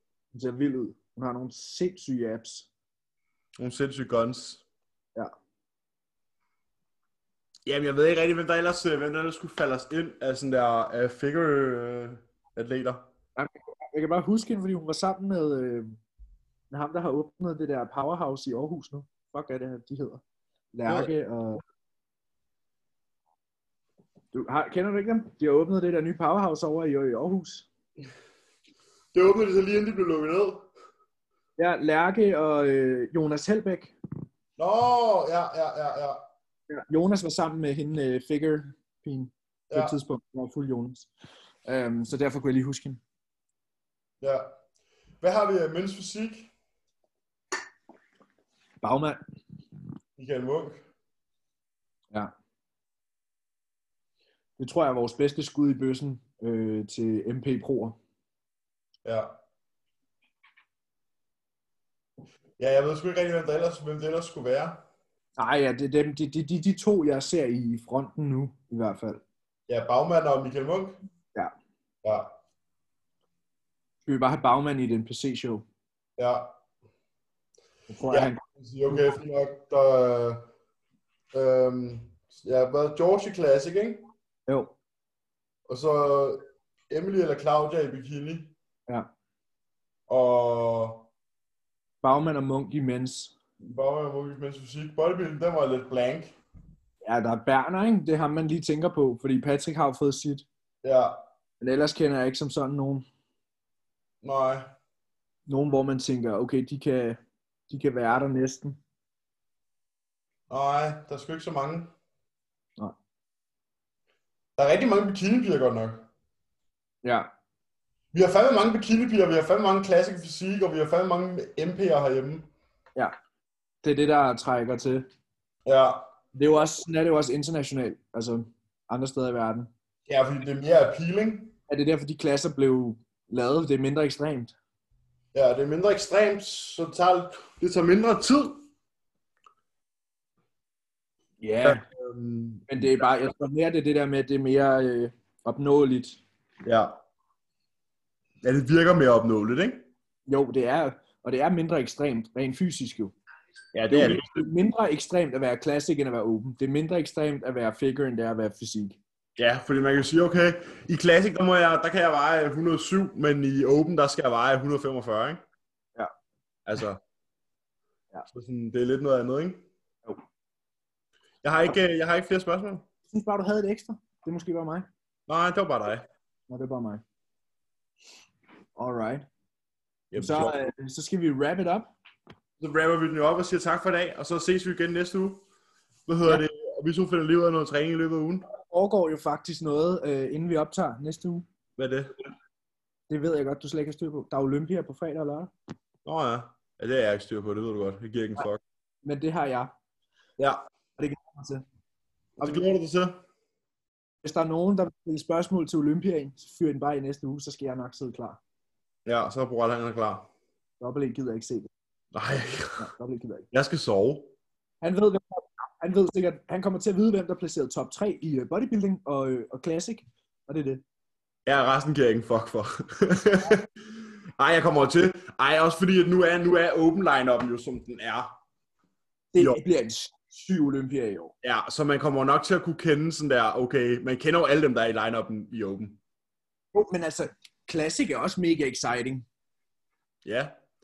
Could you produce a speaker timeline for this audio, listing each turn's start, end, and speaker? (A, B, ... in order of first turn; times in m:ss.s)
0:00.3-0:02.7 A
0:03.6-0:04.6 B
0:07.6-0:13.1 B
0:13.4-0:16.0 A
0:16.7-0:20.2 A
0:20.7-0:21.6 A
0:20.8-0:21.1 B
0:24.3-0:27.7 A
0:29.1-0:30.7 B
0:31.6-0:33.9 A
0:34.6-0:36.2 B
0:36.7-0:41.1 A
0:39.7-0:40.0 B
0:41.6-0:43.0 A
0:44.2-0:44.5 B
0:45.2-0:46.5 B
0:48.8-0:49.2 A
0:50.2-0:50.8 B
0:54.6-0:58.0 A
0:59.0-0:59.4 B
1:02.6-1:04.8 B
1:05.4-1:09.2 A
1:09.7-1:11.0 B
1:12.0-1:12.3 B
1:14.0-1:15.6 A
1:16.2-1:16.5 B
1:17.9-1:18.4 A
1:18.1-1:20.5 B
1:21.3-1:24.1 B
1:24.5-1:24.7 A
1:25.7-1:28.5 B
1:30.1-1:31.1 B
1:32.0-1:33.3 A
1:33.6-1:36.4 B
1:37.0-1:40.5 A
1:40.8-1:41.2 B
1:41.6-1:43.0 A
1:44.2-1:44.7 B
1:45.5-1:48.8 A
1:50.5-1:51.9 B
1:54.6-1:56.1 B
1:57.0-1:57.3 A
1:58.1-2:02.5 B
2:03.8-2:05.1 A
2:05.6-2:06.1 B
2:06.3-2:09.7 A
2:10.1-2:11.5 B
2:11.7-2:14.5 A
2:15.3-2:18.6 B
2:21.4-2:21.8 A
2:21.6-2:22.7 B
2:22.7-2:26.2 A
2:26.6-2:26.9 B
2:28.4-2:29.9 B
2:30.3-2:33.1 A
2:33.7-2:34.5 B
2:33.9-2:39.0 A
2:39.4-2:45.4 B
2:46.6-2:47.0 B
2:48.3-2:49.6 B
2:51.4-2:52.8 B
2:53.1-2:54.9 A
2:55.3-2:56.0 B
2:56.5-2:57.0 A
2:58.8-2:59.2 A
3:00.1-3:00.6 B
3:00.1-3:01.9 A
3:02.6-3:05.4 B
3:06.1-3:08.5 B
3:08.5-3:11.4 A
3:11.8-3:12.1 B
3:13.1-3:15.5 A
3:16.0-3:18.6 B
3:19.0-3:19.7 A
3:21.0-3:21.6 A
3:22.4-3:22.6 A
3:22.4-3:23.2 B
3:24.2-3:28.4 A
3:29.0-3:30.3 B
3:30.8-3:31.7 A
3:32.1-3:32.9 B
3:32.8-3:33.5 A
3:33.5-3:34.3 B
3:34.8-3:40.8 A
3:41.4-3:48.3 B
3:49.3-3:51.3 A
3:49.4-3:49.6 B
3:51.4-3:56.0 B
3:56.7-3:59.2 A
4:00.2-4:00.5 B